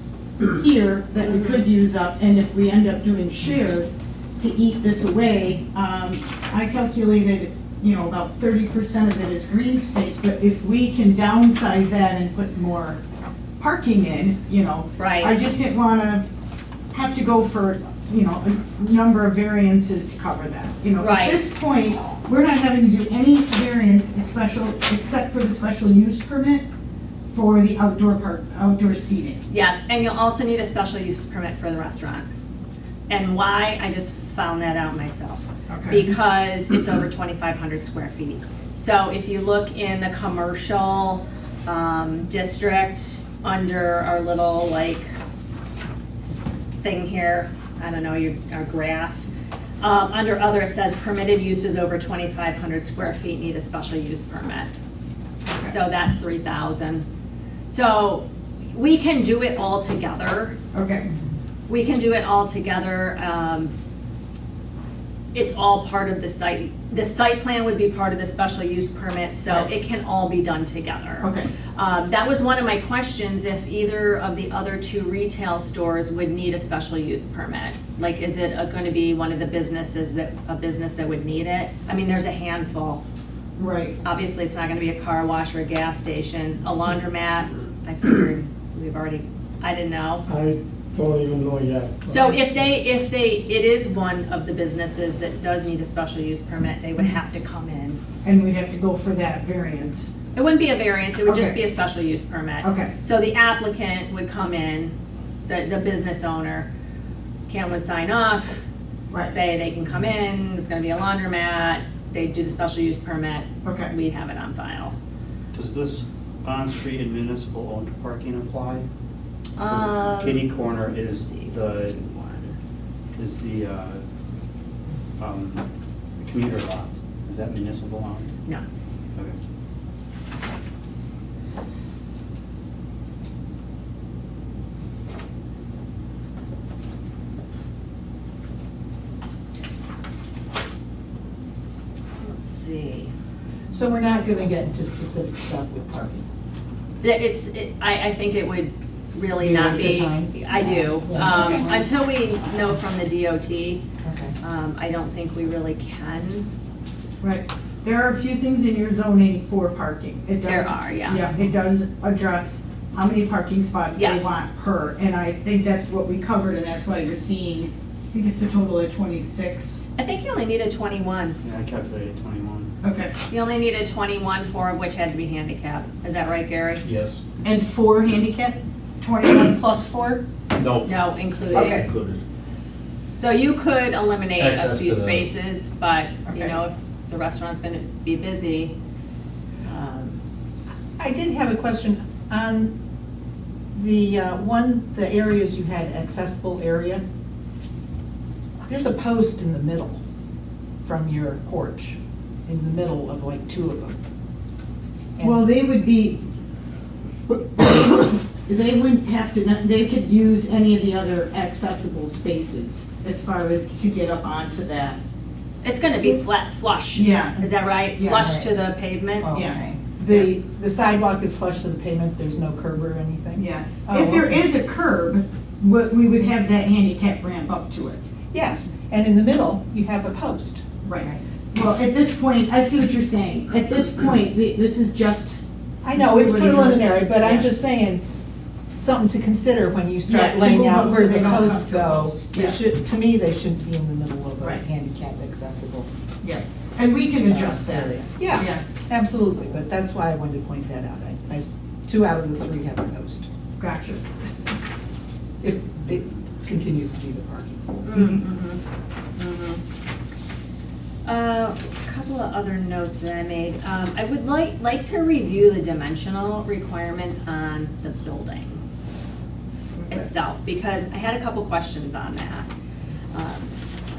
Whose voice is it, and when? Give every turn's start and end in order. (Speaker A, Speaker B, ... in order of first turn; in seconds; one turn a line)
Speaker A: 0.4-13.0
Speaker B: 1.2-1.6
Speaker A: 13.6-16.2
Speaker B: 15.0-15.3
Speaker A: 16.9-26.7
Speaker B: 21.0-21.4
Speaker A: 27.3-29.4
Speaker B: 29.5-32.3
Speaker B: 33.1-45.1
Speaker A: 35.7-36.1
Speaker B: 46.8-49.3
Speaker B: 49.8-54.7
Speaker A: 55.5-55.7
Speaker B: 55.6-57.0
Speaker B: 57.7-60.6
Speaker A: 60.7-61.1
Speaker B: 61.7-63.7
Speaker B: 65.3-83.0
Speaker A: 71.2-71.5
Speaker A: 83.6-84.0
Speaker B: 84.0-90.2
Speaker C: 90.2-92.3
Speaker B: 92.1-98.0
Speaker A: 98.2-100.1
Speaker B: 100.3-104.9
Speaker A: 101.2-101.6
Speaker A: 102.6-102.9
Speaker B: 105.5-106.7
Speaker B: 107.5-108.6
Speaker B: 109.3-114.9
Speaker A: 113.6-113.9
Speaker D: 115.5-118.8
Speaker B: 119.6-122.2
Speaker D: 119.6-122.5
Speaker D: 123.2-124.0
Speaker D: 125.2-125.6
Speaker D: 126.2-128.3
Speaker B: 142.2-143.1
Speaker E: 143.7-146.2
Speaker B: 147.0-153.8
Speaker E: 149.3-151.9
Speaker E: 154.0-154.3
Speaker B: 154.4-156.5
Speaker A: 157.2-169.9
Speaker B: 160.4-161.2
Speaker B: 163.9-164.4
Speaker B: 170.0-171.4
Speaker D: 171.4-172.7
Speaker A: 172.8-173.1
Speaker B: 173.3-176.8
Speaker F: 176.8-177.2
Speaker A: 177.4-180.2
Speaker F: 180.5-181.0
Speaker B: 180.8-181.8
Speaker F: 181.5-182.2
Speaker A: 181.5-181.8
Speaker B: 183.2-188.7
Speaker F: 184.4-185.3
Speaker A: 186.3-186.6
Speaker B: 189.6-190.2
Speaker E: 191.0-192.7
Speaker E: 193.7-197.0
Speaker E: 198.7-200.0
Speaker E: 200.8-203.9
Speaker E: 205.2-205.5
Speaker A: 205.2-206.2
Speaker A: 207.6-215.0
Speaker B: 215.6-219.4
Speaker A: 216.9-218.4
Speaker E: 219.2-224.4
Speaker A: 219.3-220.3
Speaker A: 223.3-228.0
Speaker E: 228.3-230.7
Speaker A: 230.8-235.4
Speaker E: 235.8-238.0
Speaker A: 235.9-237.5
Speaker E: 238.8-245.9
Speaker A: 240.1-242.6
Speaker A: 246.2-248.6
Speaker E: 247.3-253.3
Speaker A: 253.6-254.0
Speaker E: 255.4-257.6
Speaker B: 257.8-258.6
Speaker A: 257.9-258.2
Speaker B: 259.2-259.6
Speaker B: 261.1-268.6
Speaker A: 269.8-270.1
Speaker B: 269.9-272.5
Speaker B: 273.1-273.5